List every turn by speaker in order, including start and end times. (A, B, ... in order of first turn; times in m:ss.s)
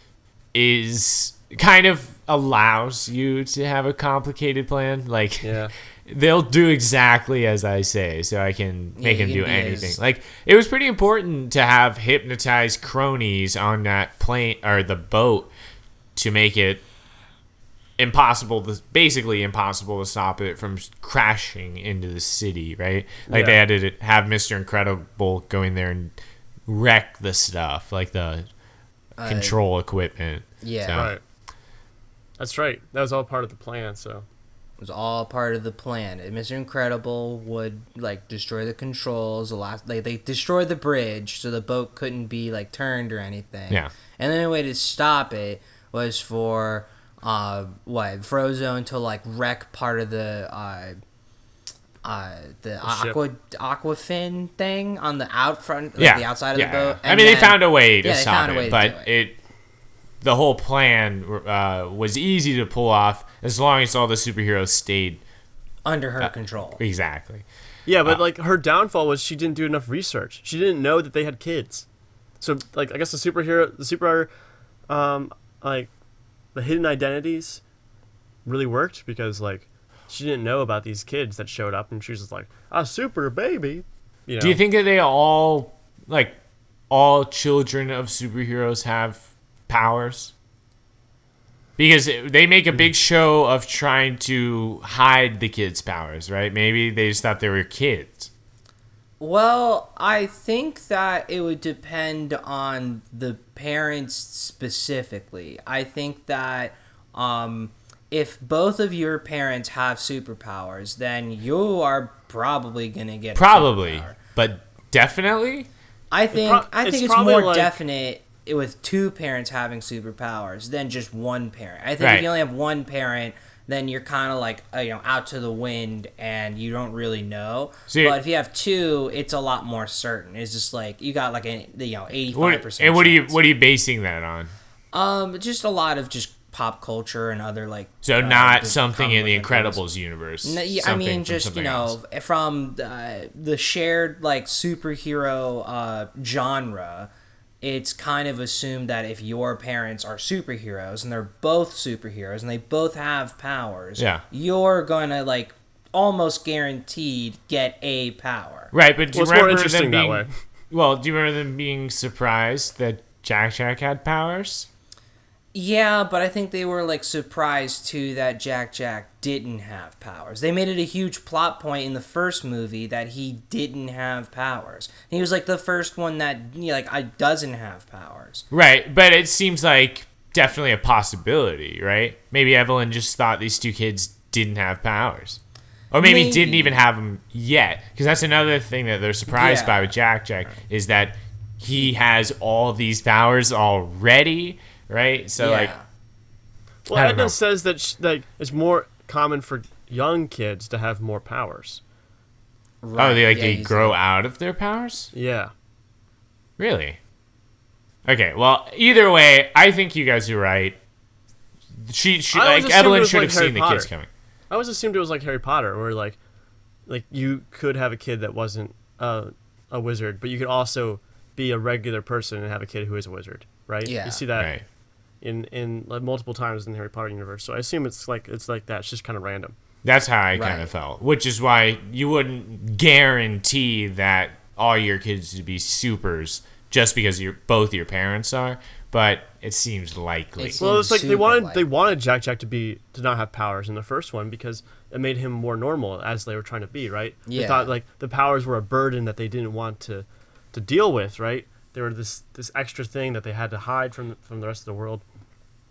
0:00.5-0:15.5 A
0:05.4-0:05.7 B
0:09.0-0:10.0 C
0:16.2-0:16.8 A
0:18.0-0:26.2 A
0:23.3-0:23.6 B
0:26.7-0:28.5 A
0:29.2-0:29.6 C
0:29.2-0:31.2 A
0:30.6-0:31.1 C
0:30.9-0:31.2 B
0:32.4-0:34.3 B
0:34.8-0:51.0 C
0:52.0-0:59.1 C
0:52.8-0:53.2 B
0:56.0-0:59.4 A
1:00.2-1:05.2 A
1:05.8-1:06.8 C
1:06.2-1:07.5 A
1:07.9-1:11.9 B
1:12.4-1:14.3 B
1:14.9-1:15.9 B
1:16.6-1:17.6 B
1:18.4-1:24.6 B
1:24.4-1:26.4 A
1:26.9-1:30.3 A
1:31.8-1:38.3 A
1:39.2-1:54.2 C
1:53.4-1:55.7 A
1:56.1-2:13.4 C
1:56.3-1:57.8 B
2:02.0-2:02.3 A
2:07.9-2:08.2 A
2:12.3-2:14.5 A
2:14.9-2:19.8 C
2:18.0-2:22.0 A
2:20.4-2:27.1 C
2:27.6-2:38.7 C
2:34.0-2:34.2 A
2:38.7-2:44.7 A
2:39.1-2:40.3 B
2:45.5-2:58.4 C
2:58.5-3:05.4 A
3:05.9-3:15.8 A
3:06.0-3:06.8 C
3:09.3-3:09.9 C
3:15.4-3:15.8 C
3:16.9-3:21.8 B
3:16.9-3:17.4 A
3:22.8-3:24.0 C
3:23.0-3:25.1 A
3:25.1-3:25.5 B
3:26.6-3:27.0 A
3:28.0-3:30.8 A
3:31.8-3:34.1 A
3:32.3-3:33.9 B
3:34.5-3:36.2 B
3:36.9-3:44.6 B
3:43.8-3:44.2 C
3:44.4-3:44.6 A
3:45.2-3:49.5 B
3:49.8-4:00.6 A
3:50.4-3:50.7 C
4:00.4-4:01.6 C
4:00.6-4:15.0 B
4:07.3-4:07.7 C